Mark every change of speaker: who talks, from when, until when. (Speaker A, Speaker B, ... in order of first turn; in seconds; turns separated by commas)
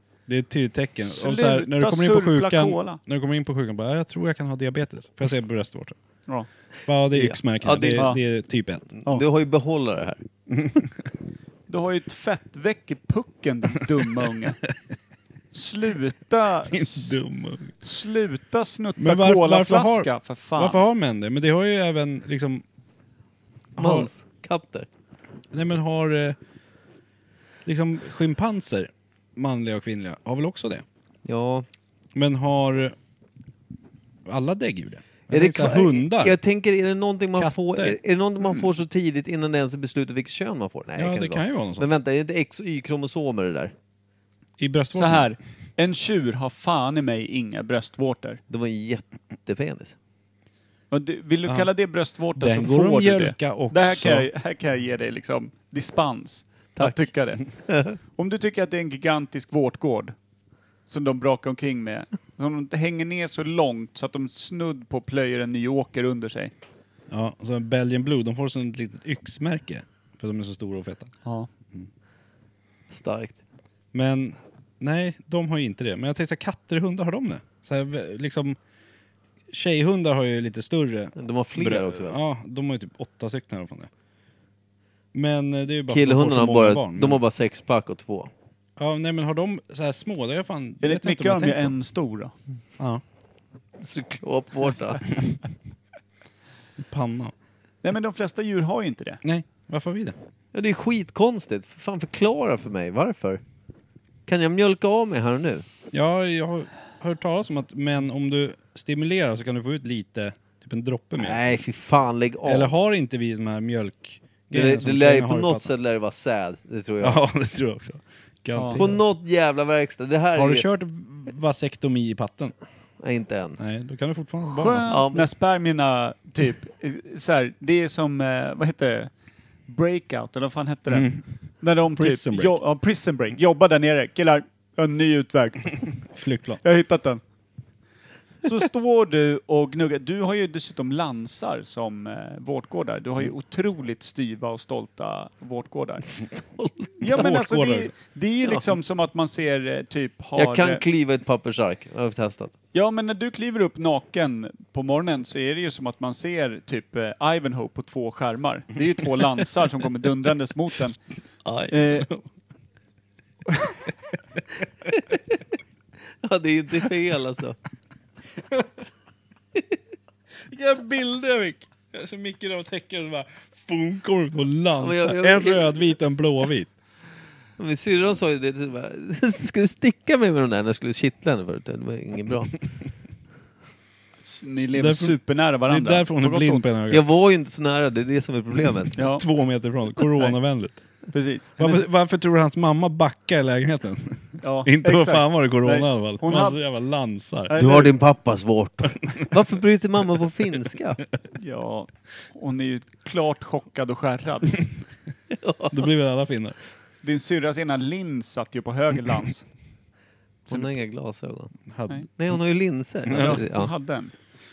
Speaker A: 0.3-6.0, Speaker B: 1.0-3.0, Speaker A: 6.8-8.9, Speaker C: 7.1-8.1, Speaker C: 9.0-10.2, Speaker A: 10.5-10.9, Speaker B: 11.7-14.6, Speaker B: 15.5-17.1, Speaker A: 16.7-17.7, Speaker B: 17.8-20.8, Speaker A: 19.0-22.6, Speaker A: 23.8-24.1, Speaker C: 23.8-24.9, Speaker A: 25.5-26.4, Speaker A: 27.6-30.8, Speaker C: 31.2-31.7, Speaker A: 32.1-33.0, Speaker A: 34.2-36.4, Speaker C: 35.3-43.7, Speaker A: 37.4-38.0, Speaker A: 41.0-41.9, Speaker A: 44.6-45.3, Speaker B: 44.9-48.4, Speaker C: 48.5-50.0, Speaker B: 50.9-60.1, Speaker A: 52.4-54.3, Speaker C: 57.6-58.0, Speaker B: 60.9-66.5, Speaker A: 67.1-71.1, Speaker C: 72.9-73.4, Speaker A: 73.9-78.6, Speaker A: 79.5-83.9, Speaker C: 81.2-82.2, Speaker A: 85.1-87.2, Speaker C: 85.9-88.3, Speaker A: 88.8-91.7, Speaker B: 90.8-92.3, Speaker A: 92.8-93.0, Speaker C: 93.8-95.0, Speaker A: 96.8-97.3, Speaker B: 97.8-99.2, Speaker A: 99.2-100.2, Speaker C: 100.5-103.4, Speaker C: 104.2-105.6, Speaker A: 105.9-111.6, Speaker C: 111.2-112.7, Speaker A: 112.4-115.7, Speaker C: 114.5-117.2, Speaker A: 117.0-119.0, Speaker B: 118.5-118.8, Speaker C: 118.8-120.7, Speaker A: 120.3-122.5, Speaker C: 123.0-123.6, Speaker A: 123.6-125.0, Speaker B: 124.5-129.1, Speaker C: 124.9-125.3, Speaker B: 129.7-136.0, Speaker A: 130.9-131.2, Speaker A: 131.9-132.6, Speaker A: 136.1-136.6, Speaker B: 136.6-137.2, Speaker B: 138.4-146.2, Speaker C: 146.1-147.1, Speaker B: 147.0-150.8, Speaker A: 147.1-147.9, Speaker C: 150.3-152.5, Speaker B: 152.7-161.0, Speaker A: 161.4-162.2, Speaker B: 161.7-162.1, Speaker C: 166.2-167.6, Speaker A: 170.5-176.7, Speaker C: 174.8-175.8, Speaker C: 177.6-182.5, Speaker B: 184.2-186.6, Speaker A: 184.8-187.0, Speaker C: 186.9-188.9, Speaker B: 188.9-189.3, Speaker A: 189.1-190.8, Speaker B: 191.1-191.8, Speaker A: 191.6-197.6, Speaker B: 194.4-196.6, Speaker B: 197.5-197.9, Speaker C: 197.5-201.0, Speaker B: 201.3-204.7, Speaker C: 205.3-205.8, Speaker A: 205.7-206.6, Speaker B: 207.0-209.4, Speaker C: 210.5-211.5, Speaker A: 211.7-212.1, Speaker C: 212.2-213.7, Speaker A: 213.1-213.4, Speaker B: 213.1-214.1